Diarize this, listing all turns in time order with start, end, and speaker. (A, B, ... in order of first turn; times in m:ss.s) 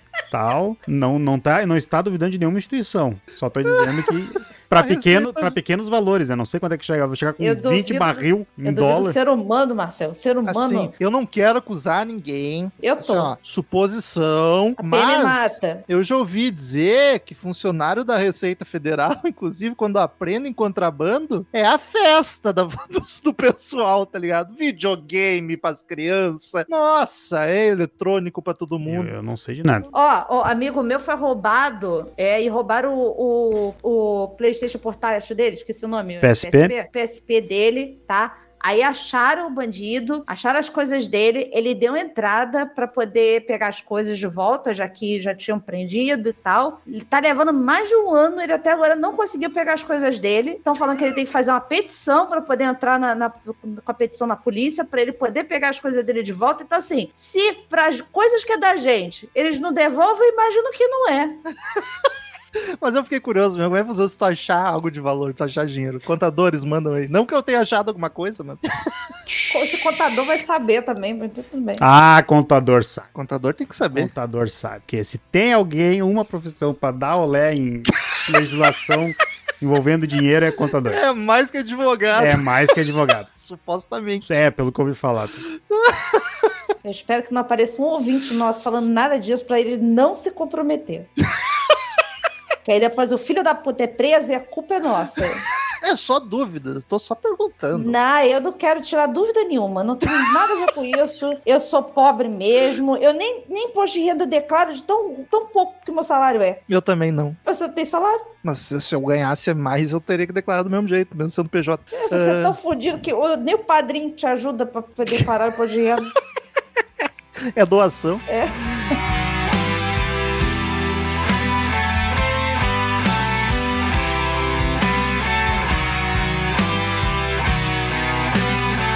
0:00.3-0:09.2 A
0:04.8-0:05.6 B
0:07.4-0:10.9 C
0:10.5-0:29.1 B
0:12.8-0:13.3 C
0:14.8-0:15.8 C
0:28.8-0:29.9 A
0:29.9-1:01.4 C
0:36.2-0:36.7 A
1:02.8-1:08.9 B
1:09.3-1:09.6 A
1:09.5-1:11.8 C
1:11.8-1:13.1 A
1:13.1-1:14.1 B
1:13.9-1:21.0 A
1:20.8-1:22.5 B
1:22.1-1:23.3 A
1:23.4-1:24.3 B
1:24.3-1:25.5 A
1:25.5-1:26.5 B
1:26.8-1:31.1 C
1:32.6-1:35.4 C
1:35.8-1:38.0 B
1:37.7-1:46.6 C
1:46.7-1:47.4 B
1:47.4-1:48.3 C
1:48.4-1:52.6 B
1:51.9-1:56.1 C
1:57.0-1:58.2 B
1:58.3-1:58.6 C